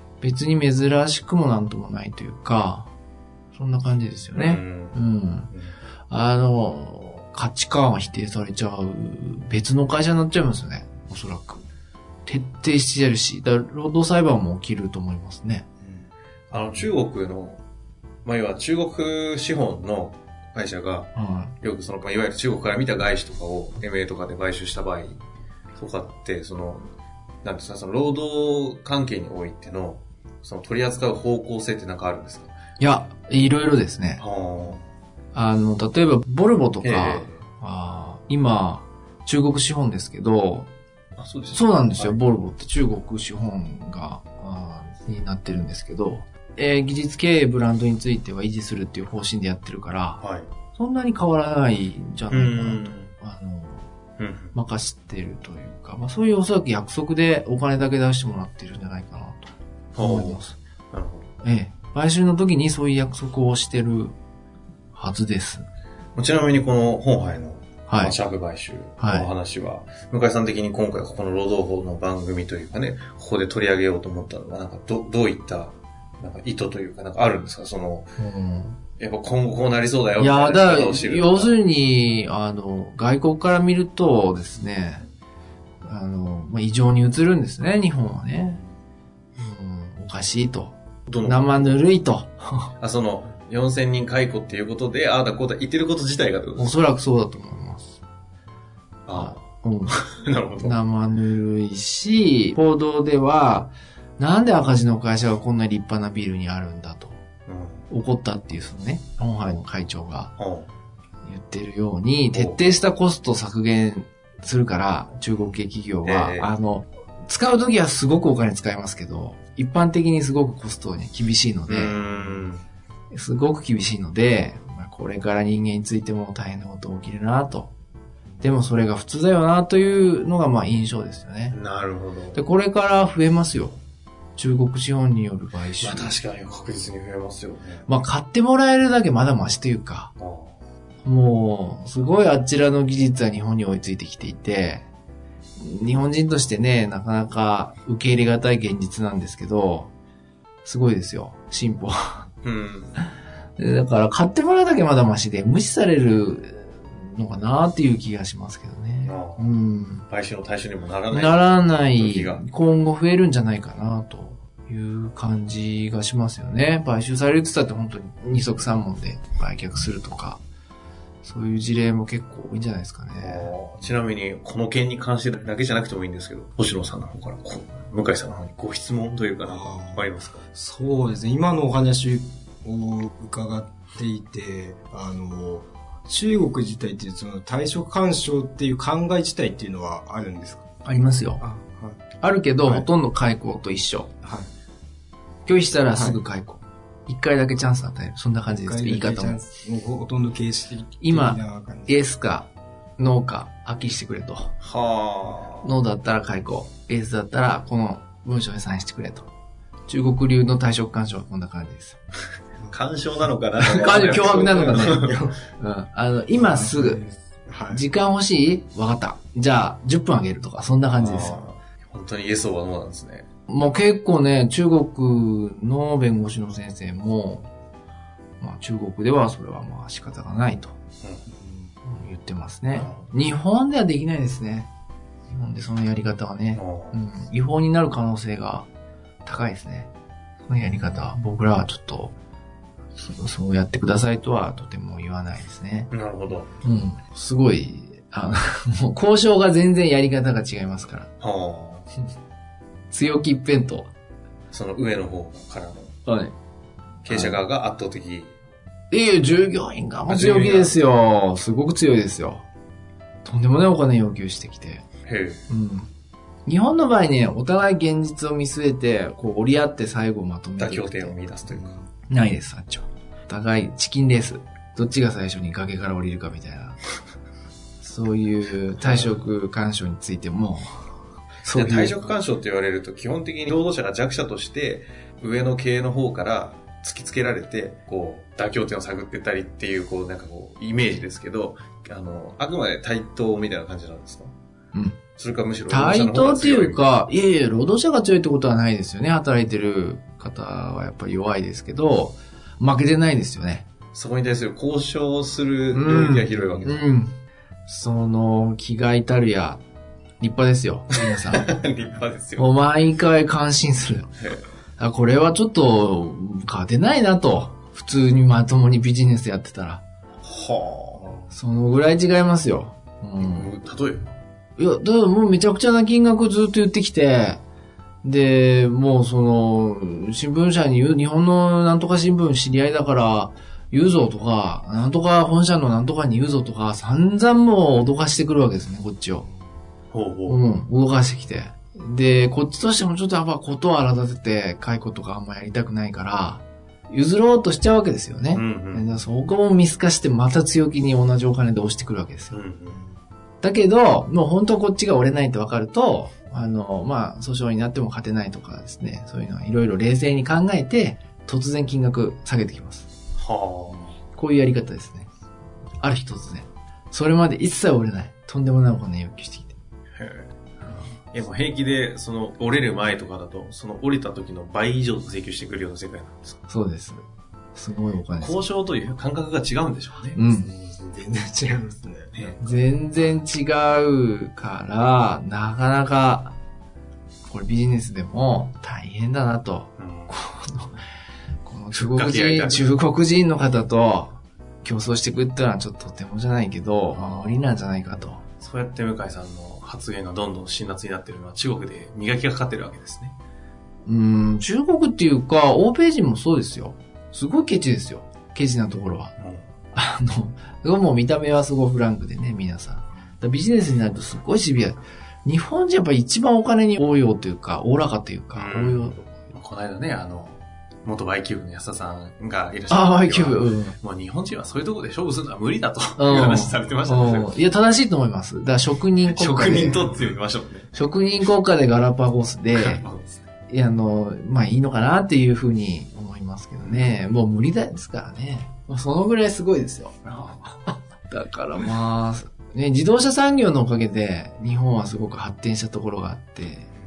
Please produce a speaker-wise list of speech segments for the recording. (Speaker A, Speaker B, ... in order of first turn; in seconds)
Speaker A: 0.2-2.9, 3.5-5.5, 6.1-11.6, 12.2-15.7, 21.1-21.5, 32.8-34.2, 35.3-40.7, 41.5-50.2, 50.7-53.9, 54.5-60.5, 61.4-64.1, 64.9-65.7, 67.9-68.1, 69.0-69.3, 78.2-78.8, 80.2-85.0, 85.8-88.6, 89.4-92.7, 96.6-98.0, 99.1-100.0, 100.6-107.2, 107.9-110.3, 111.2-122.0, 123.1-127.7, 128.4-131.6, 132.3-133.8, 134.3-136.2, 137.9-140.1, 141.0-144.8, 145.6-149.9, 150.6-152.3, 153.6-160.1, 161.1-170.4, 171.2-173.5, 190.8-191.4, 192.2-194.1, 195.4-199.4, 201.0-204.5, 205.6-209.3, 209.9-212.0, 213.6-217.0, 217.7-221.4, 223.5-227.5, 228.4-230.7, 231.8-234.7, 235.3-238.7, 239.2-239.9, 240.4-242.1, 242.9-245.9, 246.6-251.1, 252.9-253.9, 256.1-256.3, 257.1-257.4, 258.9-262.4, 263.2-264.8, 265.5-265.9, 266.4-271.1, 272.1-276.8, 277.8-280.9, 281.4-282.1, 294.7-295.0, 295.7-303.7, 305.7-307.1, 307.7-309.6, 310.2-311.6, 312.4-314.1, 314.8-319.8, 321.3-323.5, 324.6-327.4, 328.0-339.3, 340.3-352.4, 353.4-362.9, 364.1-365.1, 365.8-369.6, 376.5-377.0, 377.5-378.4, 380.1-380.5, 382.4-386.3, 387.3-390.8, 391.4-398.2, 403.9-409.1, 409.7-419.0, 422.7-423.8, 426.0-430.1, 430.7-432.8, 433.5-440.4, 441.1-446.7
Speaker B: 4.3-5.7, 16.5-17.6, 18.2-25.2, 25.8-26.9, 27.4-32.5, 34.2-34.8, 36.8-37.4, 41.2-42.2, 50.2-50.5, 52.3-53.1, 54.2-54.5, 59.9-60.4, 60.9-61.3, 66.2-78.1, 79.0-81.5, 91.1-91.7, 92.8-96.8, 99.1-100.8, 107.5-107.9, 110.4-110.7, 112.3-112.7, 116.0-116.5, 121.7-122.6, 131.5-132.4, 135.8-137.9, 140.2-140.6, 152.4-153.1, 159.0-159.5, 160.1-162.4, 173.2-180.4, 204.6-205.7, 212.7-215.1, 221.0-223.3, 232.7-233.0, 236.5-237.0, 245.9-246.6, 251.2-251.9, 254.5-255.9, 257.0-258.3, 260.1-260.8, 265.1-265.5, 270.6-271.8, 278.8-279.2, 281.5-294.3, 295.2-296.9, 303.9-306.9, 311.3-312.5, 314.2-314.4, 320.2-321.3, 323.2-324.1, 339.9-340.4, 348.3-349.0, 352.3-352.8, 363.2-364.0, 370.0-376.4, 378.2-380.2, 382.1-382.4, 389.8-390.1, 391.7-392.7, 396.9-397.3, 398.4-403.1, 409.2-409.4, 418.3-427.4, 429.0-430.7, 432.5-433.2, 436.6-437.0, 440.0-440.6
Speaker C: 179.4-190.7, 191.4-192.0, 194.2-194.5, 195.9-196.2, 198.5-202.0, 214.1-215.4, 216.3-217.8, 231.4-231.7, 271.5-271.8, 380.2-382.6